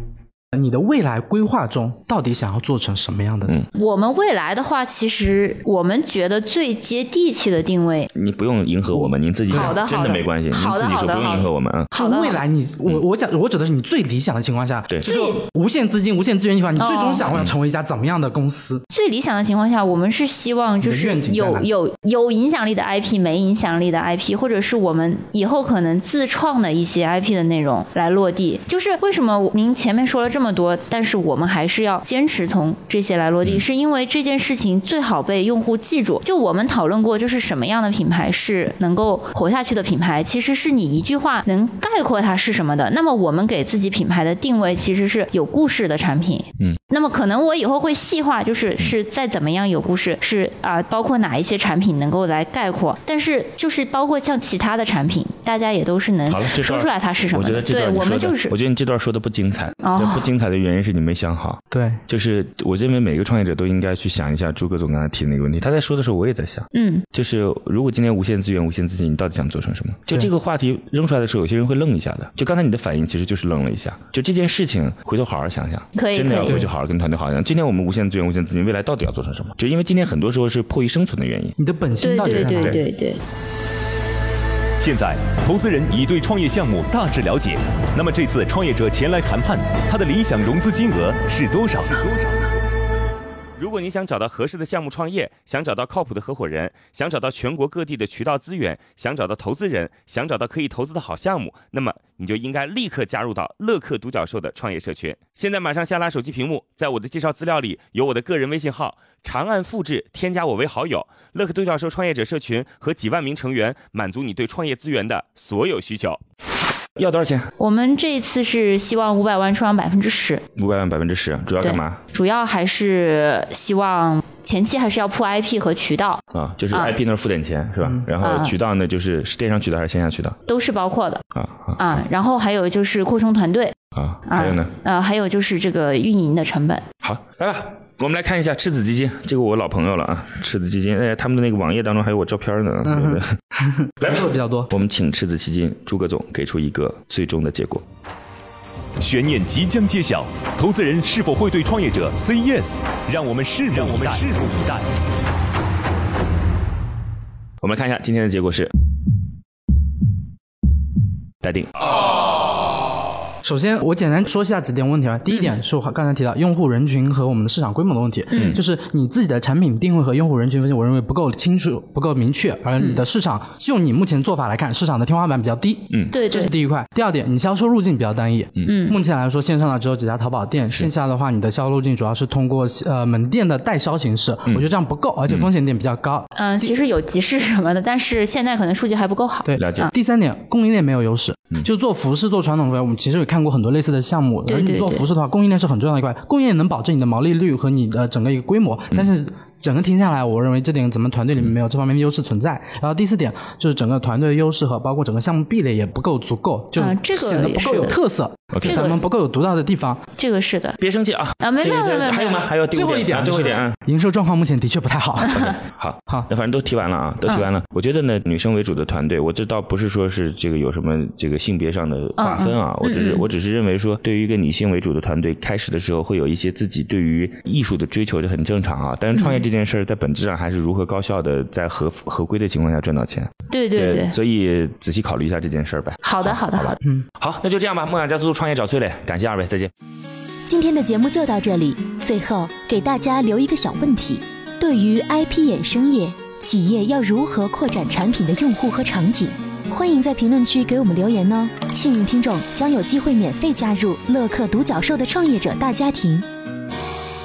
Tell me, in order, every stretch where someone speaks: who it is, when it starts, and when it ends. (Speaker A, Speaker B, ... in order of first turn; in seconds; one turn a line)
Speaker A: 0.5-3.6
Speaker B: 3.7-8.1
Speaker C: 8.1-11.9
Speaker A: 8.9-9.8
Speaker B: 9.5-12.4
Speaker A: 11.9-18.8
Speaker B: 15.0-15.4
Speaker B: 16.8-17.2
Speaker B: 18.9-58.5
Speaker A: 20.8-21.7
Speaker C: 56.3-81.5
Speaker B: 59.8-60.3
Speaker A: 61.7-62.0
Speaker B: 66.7-67.0
Speaker B: 75.9-76.6
Speaker A: 76.4-76.7
Speaker A: 81.6-82.8
Speaker B: 82.0-83.2
Speaker C: 82.4-82.8
Speaker D: 84.8-92.3
Speaker E: 93.6-116.2
Speaker C: 117.0-117.5
Speaker B: 117.6-120.4
Speaker C: 120.5-122.0
Speaker B: 121.6-127.0
Speaker C: 126.3-130.3
Speaker B: 128.2-128.5
Speaker B: 130.5-131.2
Speaker C: 131.3-131.8
Speaker B: 131.8-133.7
Speaker C: 133.9-134.7
Speaker B: 134.2-136.8
Speaker C: 137.0-143.2
Speaker A: 142.8-144.7
Speaker C: 144.0-147.8
Speaker D: 149.0-154.8
Speaker C: 157.6-158.7
Speaker C: 161.4-161.7
Speaker A: 163.4-186.7
Speaker B: 165.3-165.6
Speaker B: 168.3-168.6
Speaker B: 176.1-176.5
Speaker B: 178.6-179.0
Speaker B: 186.3-189.9
Speaker A: 189.4-210.0
Speaker C: 189.6-189.9
Speaker B: 194.4-195.0
Speaker B: 206.8-208.0
Speaker C: 208.5-208.9
Speaker B: 208.6-209.0
Speaker B: 210.2-210.8
Speaker C: 210.8-213.8
Speaker B: 211.4-212.4
Speaker A: 212.7-215.4
Speaker C: 215.3-239.7
Speaker B: 222.2-223.2
Speaker B: 229.1-229.4
Speaker B: 233.5-234.2
Speaker B: 236.0-236.8
Speaker F: 240.5-256.2